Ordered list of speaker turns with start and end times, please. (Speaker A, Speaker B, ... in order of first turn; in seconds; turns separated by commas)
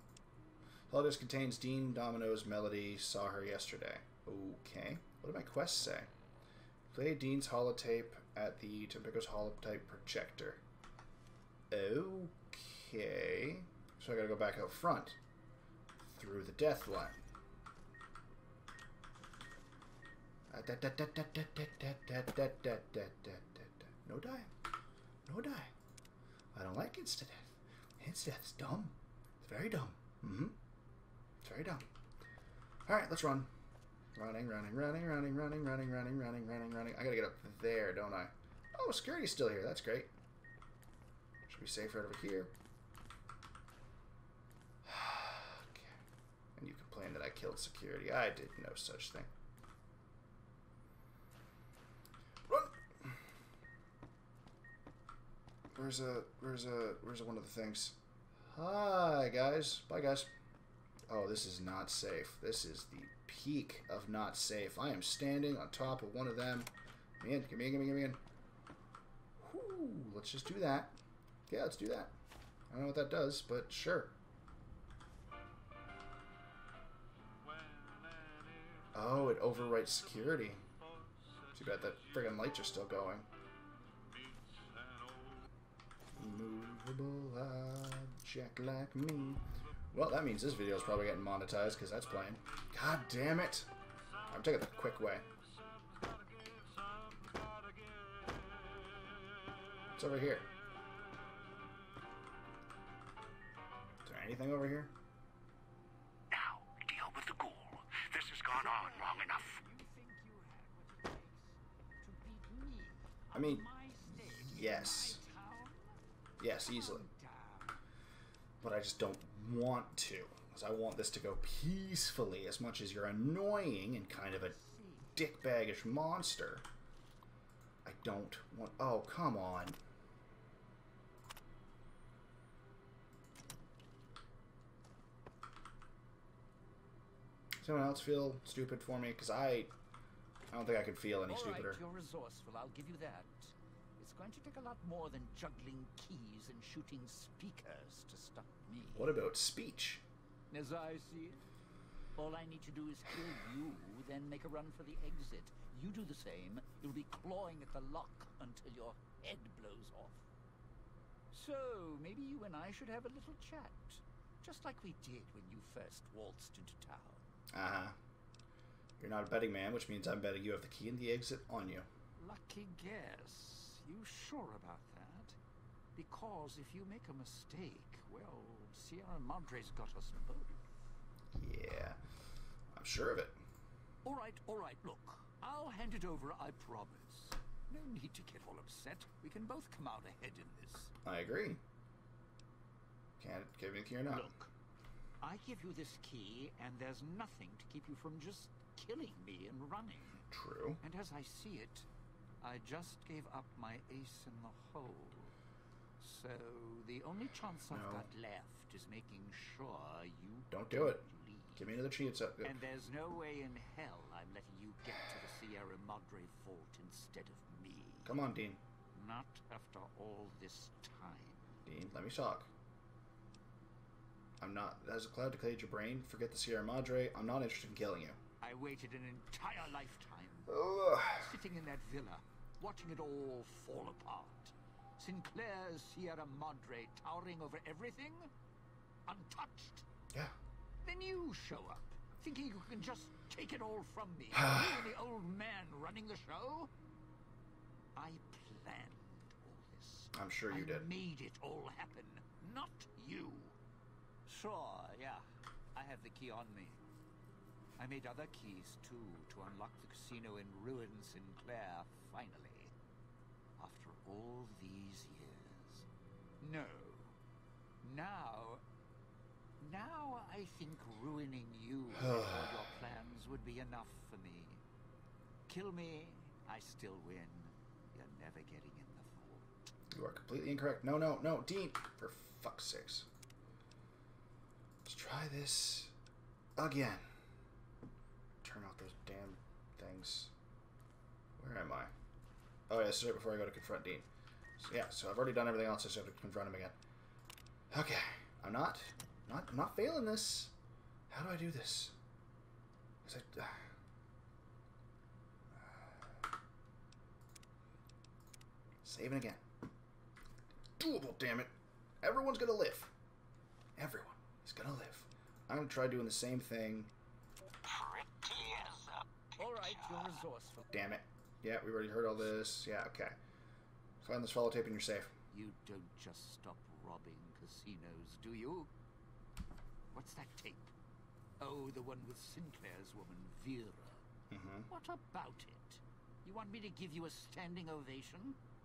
Speaker A: 0.9-6.1, Speaker A: 6.9-10.6, Speaker A: 11.7-15.2, Speaker A: 16.0-17.2, Speaker A: 20.5-24.5, Speaker A: 25.2-25.7, Speaker A: 26.5-30.6, Speaker A: 31.4-31.9, Speaker A: 32.9-33.5, Speaker A: 34.1-40.1, Speaker A: 41.5-42.5, Speaker A: 44.8-45.9, Speaker A: 46.6-49.3, Speaker A: 52.5-53.2, Speaker A: 55.7-58.0, Speaker A: 58.5-60.3, Speaker A: 61.1-68.2, Speaker A: 69.4-71.0, Speaker A: 71.5-72.1, Speaker A: 72.7-74.1, Speaker A: 78.9-80.6, Speaker A: 81.5-83.3, Speaker A: 86.1-93.7, Speaker A: 94.3-95.2, Speaker A: 100.0-100.5, Speaker A: 104.0-104.9, Speaker B: 106.3-109.8, Speaker C: 108.4-115.8, Speaker A: 113.3-115.2, Speaker B: 113.5-114.5, Speaker A: 116.4-117.0, Speaker C: 116.6-117.7, Speaker A: 118.6-124.5, Speaker C: 124.5-125.1, Speaker A: 125.1-126.6, Speaker A: 127.8-129.8, Speaker A: 137.6-139.7, Speaker A: 140.5-141.8, Speaker C: 141.3-143.4, Speaker C: 144.0-148.6, Speaker B: 145.2-148.9, Speaker A: 148.9-150.0, Speaker C: 150.5-151.4, Speaker C: 152.2-160.2, Speaker B: 152.5-153.8, Speaker B: 155.5-159.2, Speaker B: 159.8-160.1, Speaker C: 161.3-167.2, Speaker B: 161.5-162.4, Speaker B: 163.0-163.8, Speaker B: 164.4-166.9, Speaker A: 167.5-167.9, Speaker A: 169.0-171.9, Speaker C: 172.3-175.3, Speaker B: 172.3-173.8, Speaker B: 174.3-175.0, Speaker C: 175.9-180.6, Speaker A: 181.3-182.0, Speaker A: 182.7-183.4, Speaker C: 184.0-190.9, Speaker A: 191.0-191.6, Speaker A: 193.2-194.3, Speaker C: 194.1-194.5, Speaker C: 195.2-200.2, Speaker A: 200.3-200.8, Speaker C: 200.8-201.8, Speaker C: 202.4-205.3, Speaker C: 206.0-211.6, Speaker B: 207.3-208.2, Speaker A: 207.7-208.1, Speaker A: 210.5-212.6, Speaker C: 212.4-218.1, Speaker B: 214.8-215.1, Speaker A: 218.0-218.6, Speaker C: 218.9-221.4, Speaker A: 221.7-222.5, Speaker A: 224.4-228.2, Speaker C: 228.4-230.5, Speaker A: 230.5-231.3, Speaker C: 231.2-238.3, Speaker C: 239.1-239.8, Speaker C: 240.8-246.7, Speaker A: 244.4-244.7, Speaker C: 248.0-253.5, Speaker A: 250.1-250.9, Speaker C: 254.3-255.2, Speaker C: 255.8-256.8, Speaker C: 257.8-262.7, Speaker C: 263.6-265.8, Speaker C: 266.4-267.1, Speaker C: 267.8-268.6, Speaker C: 269.6-274.6, Speaker A: 272.0-272.6, Speaker B: 272.3-272.8, Speaker C: 275.5-279.5, Speaker A: 279.9-283.1, Speaker A: 284.8-285.9, Speaker A: 286.6-287.1, Speaker A: 288.4-290.3, Speaker A: 291.4-291.9, Speaker A: 292.7-294.1, Speaker A: 294.6-296.8, Speaker A: 297.7-300.5, Speaker A: 301.1-301.9, Speaker A: 303.0-303.6, Speaker A: 305.5-306.0, Speaker A: 308.8-309.4, Speaker A: 310.8-312.9, Speaker A: 313.8-316.9, Speaker C: 317.6-320.7, Speaker B: 319.4-320.2, Speaker A: 320.7-323.2, Speaker A: 324.0-325.1, Speaker C: 325.3-328.7, Speaker C: 329.9-330.7, Speaker C: 331.4-334.0, Speaker A: 334.3-334.7, Speaker C: 334.7-338.4